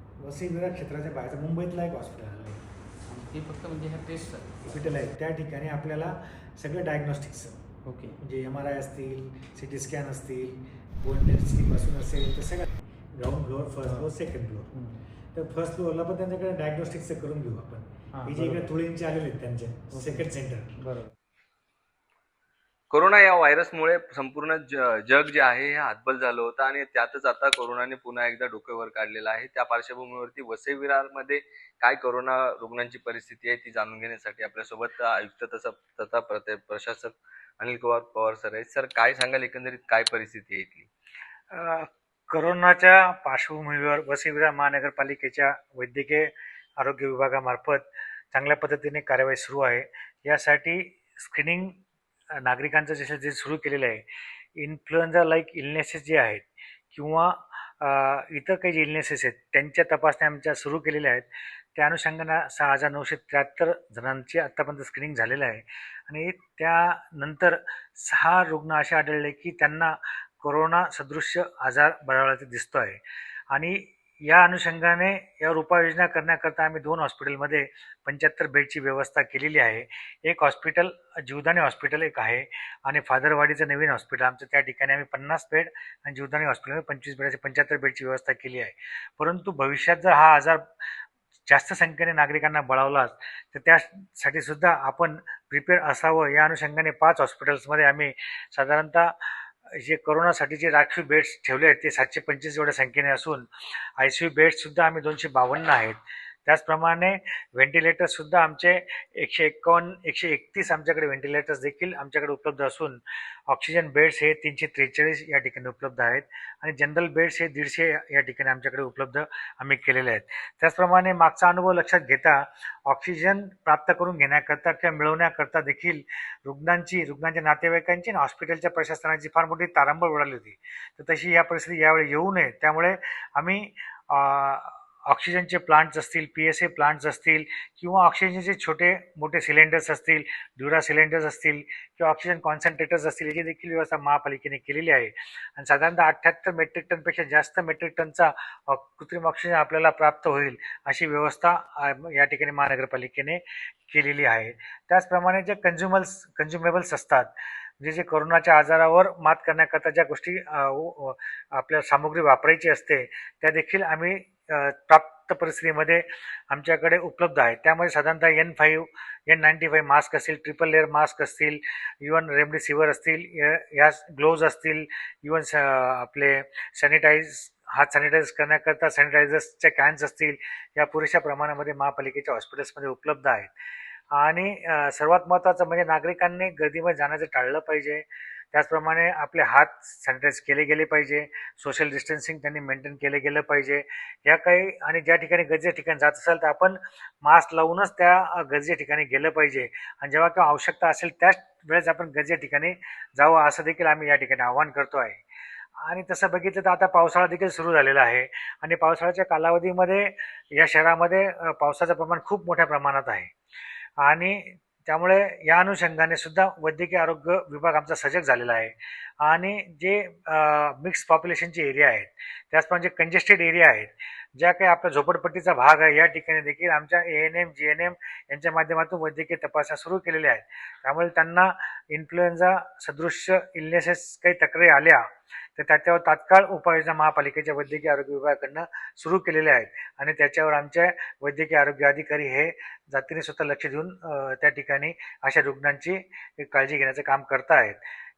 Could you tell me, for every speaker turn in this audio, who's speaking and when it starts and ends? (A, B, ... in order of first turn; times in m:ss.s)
0:00.2-0:02.6 A
0:03.1-0:04.5 B
0:04.6-0:07.6 A
0:07.8-0:08.2 B
0:08.2-0:14.7 A
0:13.8-0:14.1 B
0:14.7-0:15.0 B
0:15.3-0:20.8 A
0:18.1-0:18.7 B
0:19.9-0:21.1 B
0:22.9-0:40.9 C
0:41.5-0:51.8 A
0:52.4-0:54.0 A
0:54.6-1:13.0 A
1:13.5-1:30.6 A
1:31.5-2:37.3 A
2:37.8-3:03.5 A
3:04.1-3:25.2 A
3:25.8-3:33.3 A
3:34.0-3:55.0 A
3:55.6-4:07.8 A